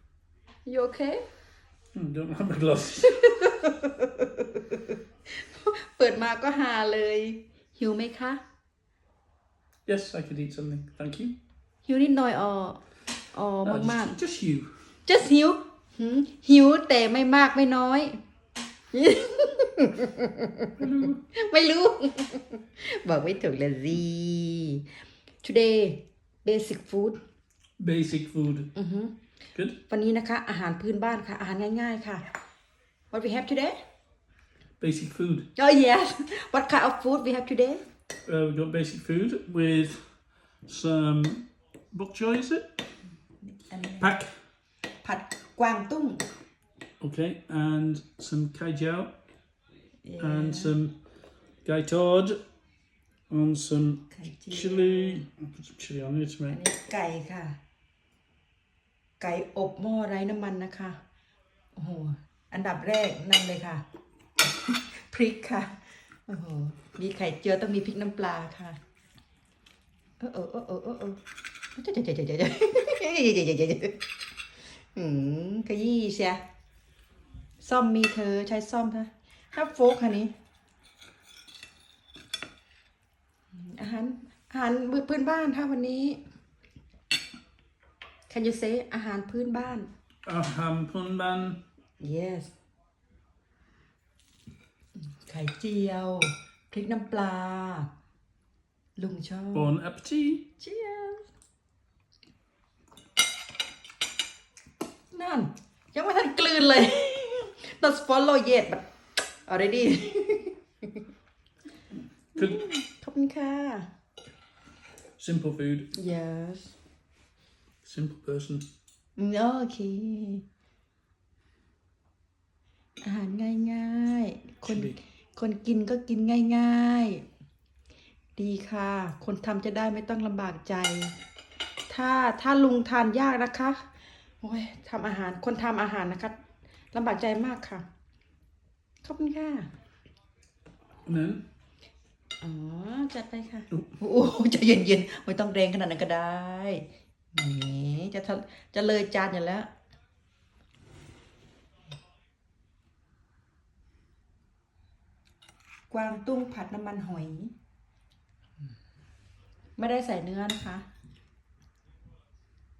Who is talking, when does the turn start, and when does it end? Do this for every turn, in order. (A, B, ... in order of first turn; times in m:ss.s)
0:00.6-0:01.3 A
0:01.9-0:03.3 B
0:03.1-0:08.4 A
0:09.9-0:11.4 B
0:11.8-0:14.2 A
0:13.6-0:14.7 B
0:15.1-0:18.2 A
0:18.9-0:20.7 A
0:20.8-0:21.2 B
0:21.3-0:24.9 A
0:25.4-0:27.2 A
0:27.8-0:28.7 B
0:28.8-0:29.2 A
0:29.9-0:32.2 A
0:33.1-0:33.8 A
0:34.8-0:35.5 B
0:35.6-0:37.8 A
0:38.2-0:42.7 B
0:43.4-0:44.1 A
0:44.0-0:44.3 B
0:45.0-0:46.3 A
0:47.0-0:49.2 B
0:50.0-0:50.8 A
0:50.2-0:51.0 B
0:51.6-0:52.4 B
0:53.3-0:56.6 B
0:54.1-0:55.2 A
0:56.5-0:57.6 A
0:59.2-1:01.0 A
1:01.8-1:03.8 A
1:04.5-1:08.8 A
1:10.2-1:11.2 A
1:11.8-1:14.0 A
1:14.8-1:16.4 A
1:17.6-1:20.3 A
1:23.5-1:26.2 A
1:28.3-1:29.9 A
1:30.2-1:31.6 B
1:32.0-1:32.5 A
1:35.0-1:37.9 A
1:39.0-1:39.7 A
1:39.5-1:40.4 B
1:40.6-1:41.3 A
1:45.1-1:48.9 A
1:49.5-1:50.6 A
1:52.4-1:53.9 A
1:52.4-1:52.6 B
1:55.2-1:55.9 B
1:56.0-1:56.7 A
1:57.8-1:58.6 B
1:59.2-2:00.4 A
2:03.0-2:07.2 A
2:04.7-2:05.0 B
2:08.4-2:11.2 A
2:11.9-2:13.9 A
2:14.4-2:16.4 A
2:16.9-2:17.8 A
2:19.0-2:19.7 A
2:21.1-2:21.4 B
2:22.4-2:29.7 A
2:35.9-2:37.6 A
2:39.8-2:40.9 A